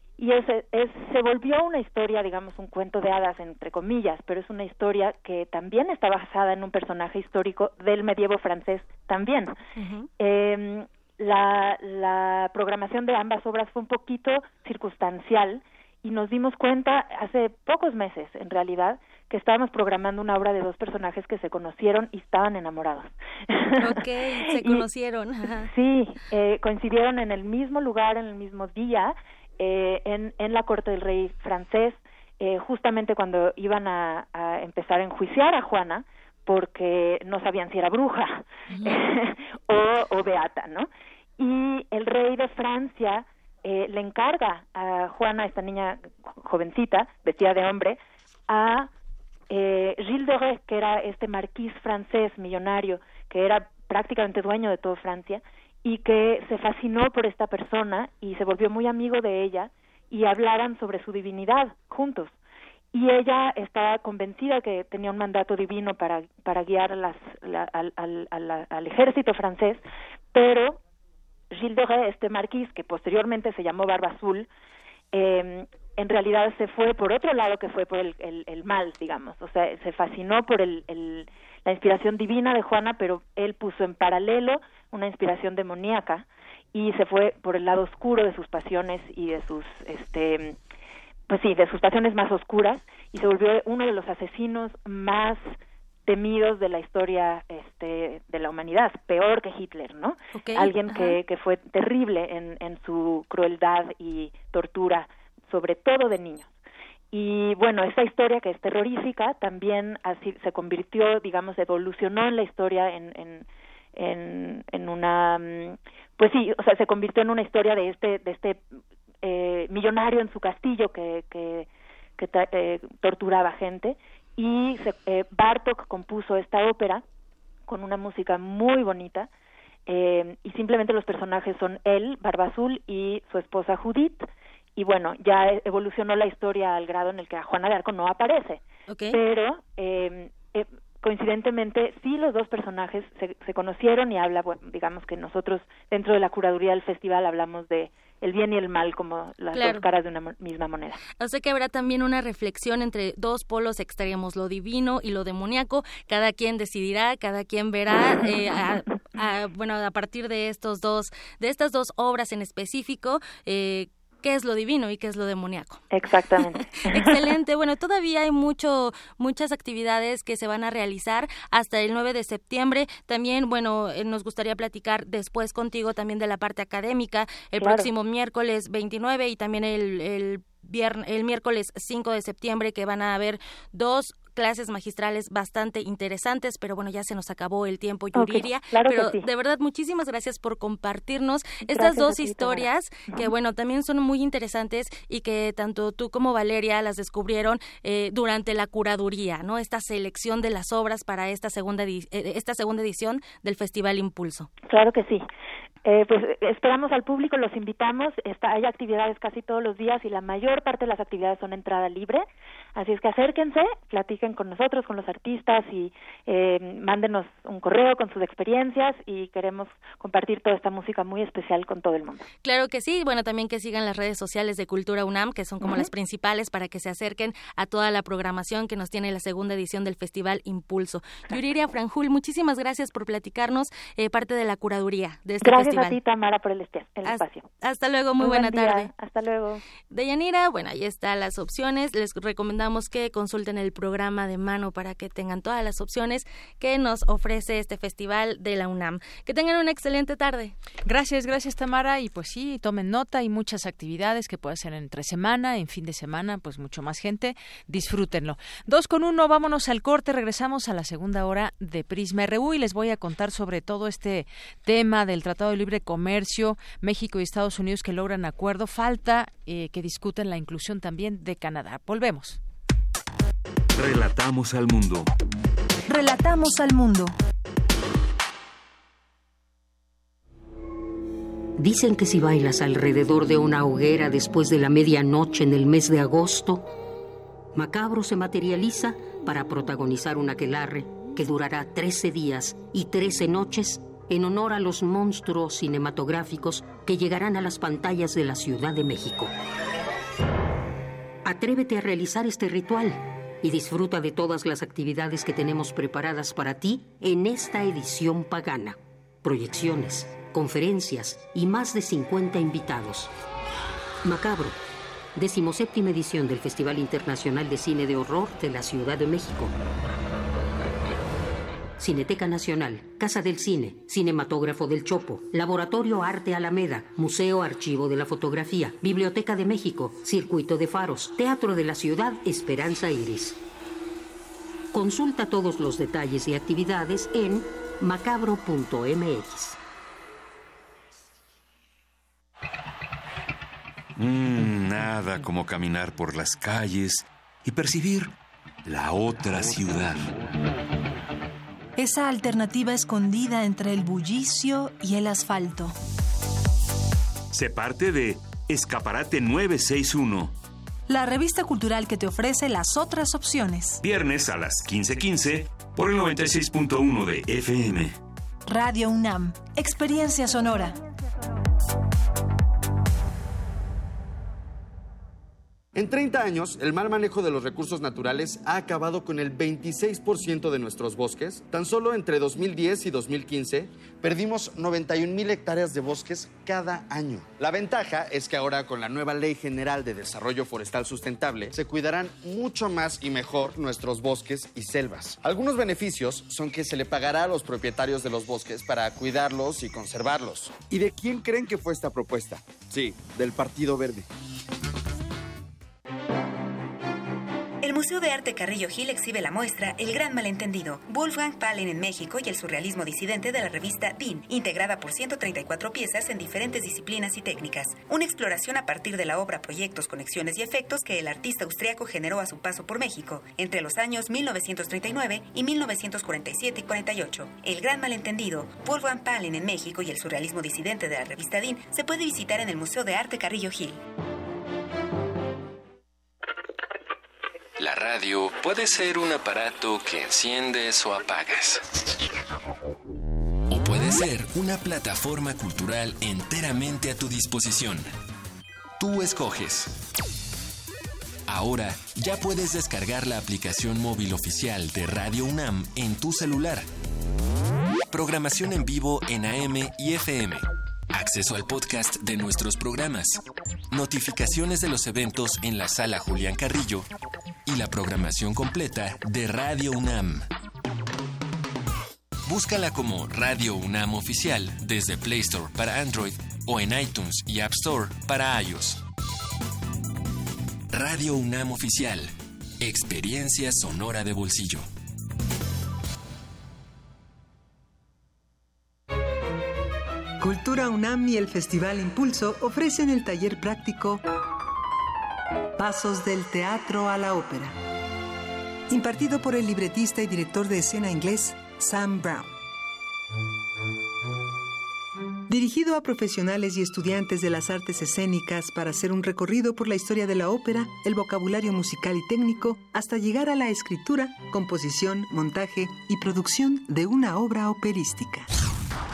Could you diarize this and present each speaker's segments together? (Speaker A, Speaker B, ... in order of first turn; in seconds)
Speaker A: 0.2-9.6, 10.2-24.9, 25.6-48.0, 48.5-48.9, 49.5-62.3, 62.9-69.8, 70.3-70.8, 71.5-74.5, 75.1-90.6, 91.3-95.6, 96.1-106.5, 107.1-118.7, 119.2-121.7, 122.2-127.0, 127.7-129.3, 129.9-151.0, 165.9-167.3, 177.6-177.9, 188.2-189.3, 191.7-193.3, 204.7-205.2, 205.8-212.2, 212.8-222.2, 225.6-225.9, 235.4-237.5, 238.2-239.6
Speaker B: 9.8-10.1, 23.8-25.7, 100.3-101.2, 138.9-139.2, 149.5-149.8, 151.2-165.8, 166.9-204.5, 222.4-236.0, 237.1-238.9, 239.9-250.6
Speaker C: 250.9-272.4
Speaker D: 273.7-275.1, 357.3-360.3, 363.8-368.0
Speaker E: 275.9-277.1, 351.8-355.8, 360.9-363.8, 368.5-370.8
Speaker F: 281.6-286.7, 287.5-299.3, 301.2-313.1, 314.0-314.6, 315.1-319.6, 321.8-333.4, 334.7-339.6
Speaker G: 344.0-348.1, 348.7-350.1, 437.6-441.6, 443.5-447.9, 448.8-449.7, 451.3-456.7, 457.9-466.9, 467.5-470.3, 472.3-478.8, 480.7-484.7
Speaker H: 375.8-404.1
Speaker I: 407.7-433.7
Speaker J: 490.2-494.0, 495.6-497.5, 498.7-502.2, 505.3-518.2